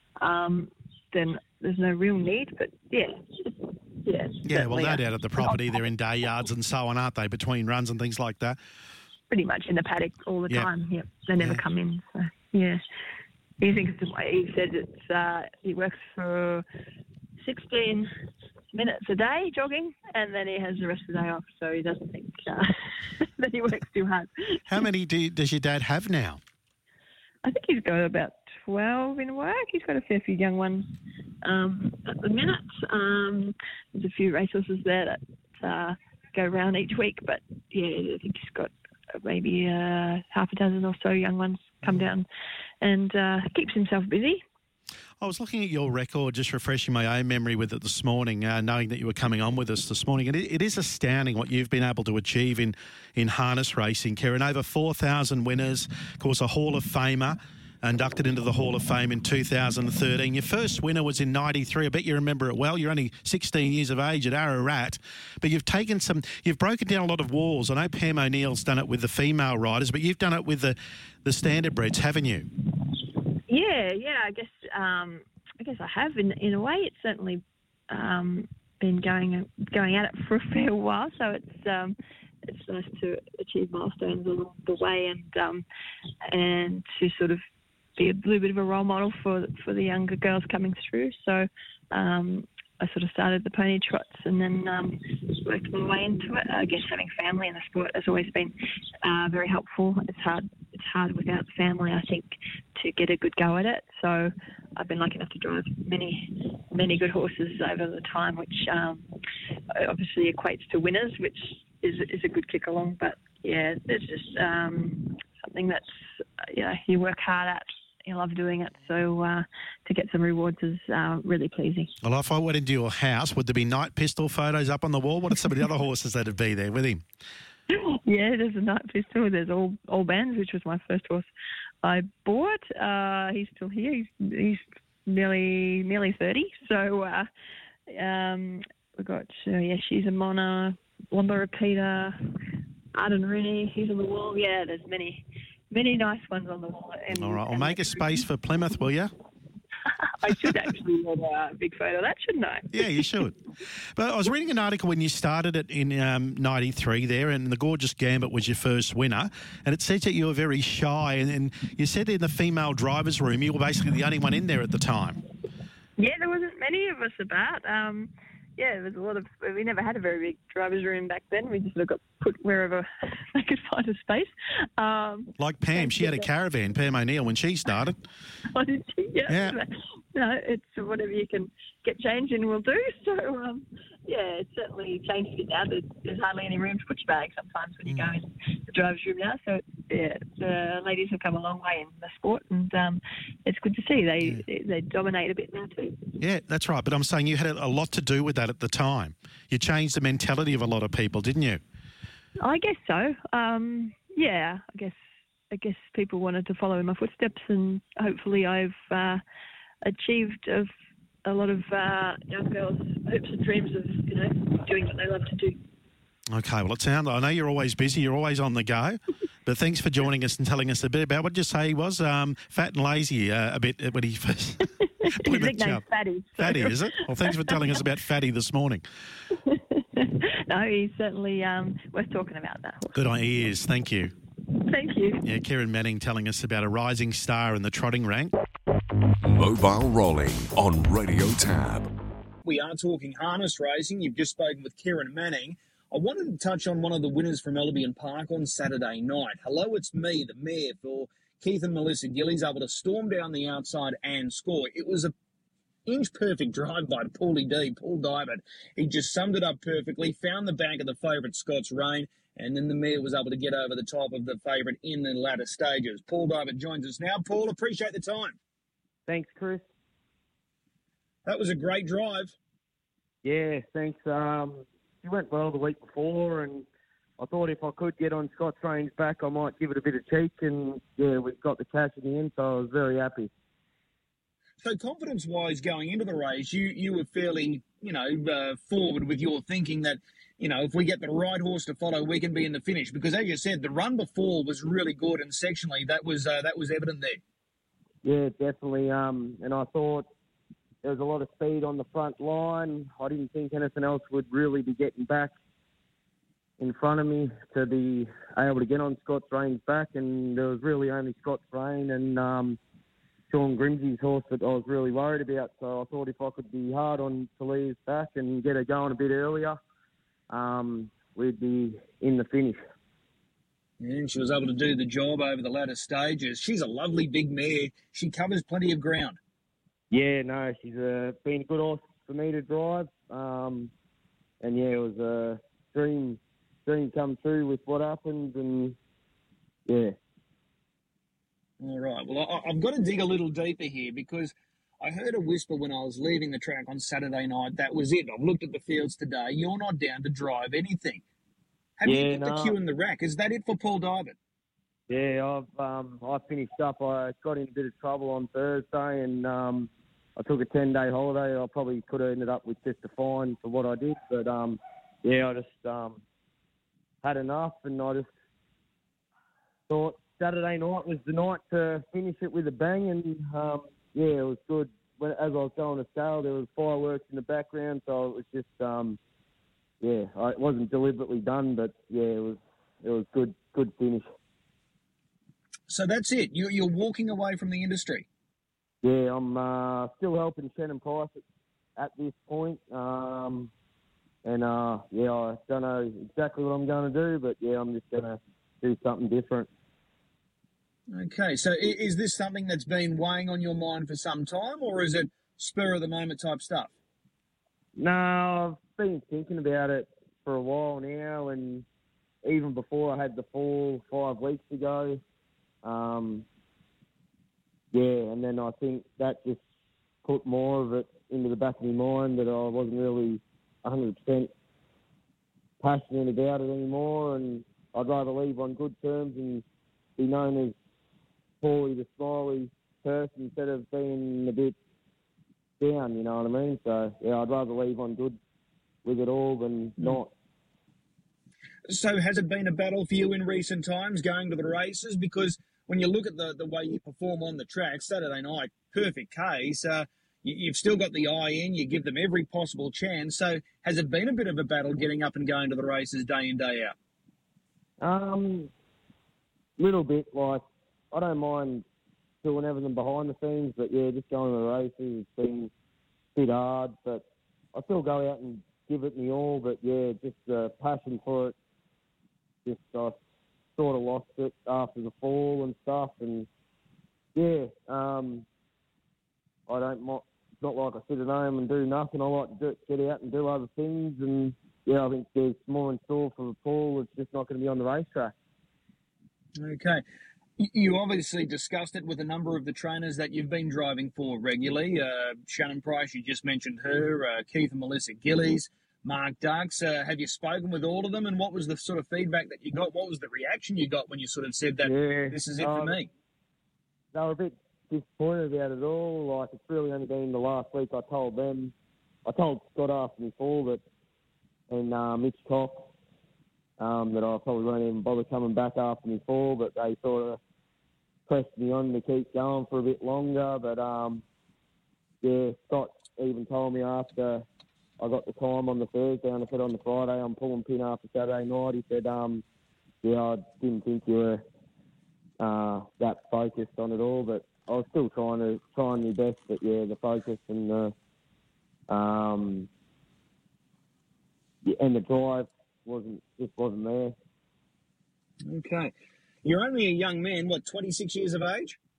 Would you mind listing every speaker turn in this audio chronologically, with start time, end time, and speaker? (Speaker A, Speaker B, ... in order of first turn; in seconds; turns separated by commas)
Speaker A: 0.2-5.9, Speaker B: 4.5-8.6, Speaker A: 9.3-12.8, Speaker A: 13.6-16.6, Speaker A: 17.4-18.1, Speaker A: 18.7-24.9, Speaker B: 24.7-26.4, Speaker A: 27.4-30.9, Speaker A: 31.4-42.3, Speaker A: 42.8-44.4, Speaker B: 45.2-72.5, Speaker A: 73.5-85.7, Speaker A: 86.3-87.4, Speaker A: 88.0-109.1, Speaker A: 109.7-121.9, Speaker B: 122.0-127.0, Speaker A: 127.7-131.3, Speaker A: 131.8-137.3, Speaker A: 137.9-142.2, Speaker A: 142.9-148.3, Speaker B: 147.1-149.1, Speaker A: 150.0-153.3, Speaker B: 152.7-153.4, Speaker B: 154.0-165.2, Speaker A: 166.0-176.3, Speaker B: 175.4-178.0, Speaker A: 178.5-196.2, Speaker B: 179.3-179.6, Speaker B: 196.2-201.6, Speaker A: 202.4-205.0, Speaker A: 205.5-209.2, Speaker A: 209.8-210.7, Speaker A: 211.2-215.6, Speaker B: 216.3-225.8, Speaker A: 224.8-227.8, Speaker B: 226.4-228.8, Speaker A: 229.3-233.0, Speaker B: 232.9-234.1, Speaker A: 234.5-235.3, Speaker B: 235.2-238.3, Speaker C: 239.2-241.9, Speaker D: 242.4-255.1, Speaker D: 255.9-268.4, Speaker E: 269.1-269.6, Speaker D: 271.3-272.3, Speaker E: 273.2-276.7, Speaker E: 277.2-283.3, Speaker D: 284.6-297.2, Speaker E: 298.0-300.1, Speaker E: 300.8-305.3, Speaker E: 306.6-312.6, Speaker E: 313.3-319.6, Speaker E: 320.3-322.6, Speaker D: 323.8-329.2, Speaker E: 329.9-333.7, Speaker E: 334.4-338.8, Speaker E: 339.7-340.0, Speaker D: 341.6-351.0, Speaker D: 351.8-354.1, Speaker E: 351.8-352.6, Speaker E: 354.9-366.0, Speaker E: 367.0-368.1, Speaker E: 369.7-379.0, Speaker E: 379.8-384.1, Speaker D: 385.7-388.1, Speaker E: 388.8-391.2, Speaker E: 391.8-393.5, Speaker E: 394.2-399.5, Speaker D: 400.9-406.7, Speaker E: 407.8-411.7, Speaker E: 412.2-415.0, Speaker E: 415.6-416.3, Speaker E: 417.7-419.4, Speaker E: 420.0-424.3, Speaker E: 425.6-429.4, Speaker E: 430.0-430.6, Speaker E: 431.4-434.6, Speaker E: 435.6-438.2, Speaker E: 438.8-440.1, Speaker D: 441.7-456.8, Speaker E: 457.8-458.5, Speaker E: 459.6-461.6, Speaker E: 462.2-465.5, Speaker E: 466.1-471.4, Speaker E: 472.4-473.0, Speaker E: 473.6-476.3, Speaker E: 477.1-478.3, Speaker E: 479.5-488.1, Speaker D: 489.4-489.8, Speaker D: 490.4-505.9, Speaker E: 504.6-505.8, Speaker E: 506.9-511.5, Speaker E: 512.1-513.6, Speaker E: 514.5-515.7, Speaker E: 516.6-520.2, Speaker E: 521.1-524.0, Speaker E: 525.0-527.2, Speaker E: 527.8-532.2, Speaker E: 532.8-534.2, Speaker E: 535.2-540.7, Speaker E: 541.7-542.5, Speaker E: 544.4-547.0, Speaker D: 548.2-548.7, Speaker D: 549.2-551.6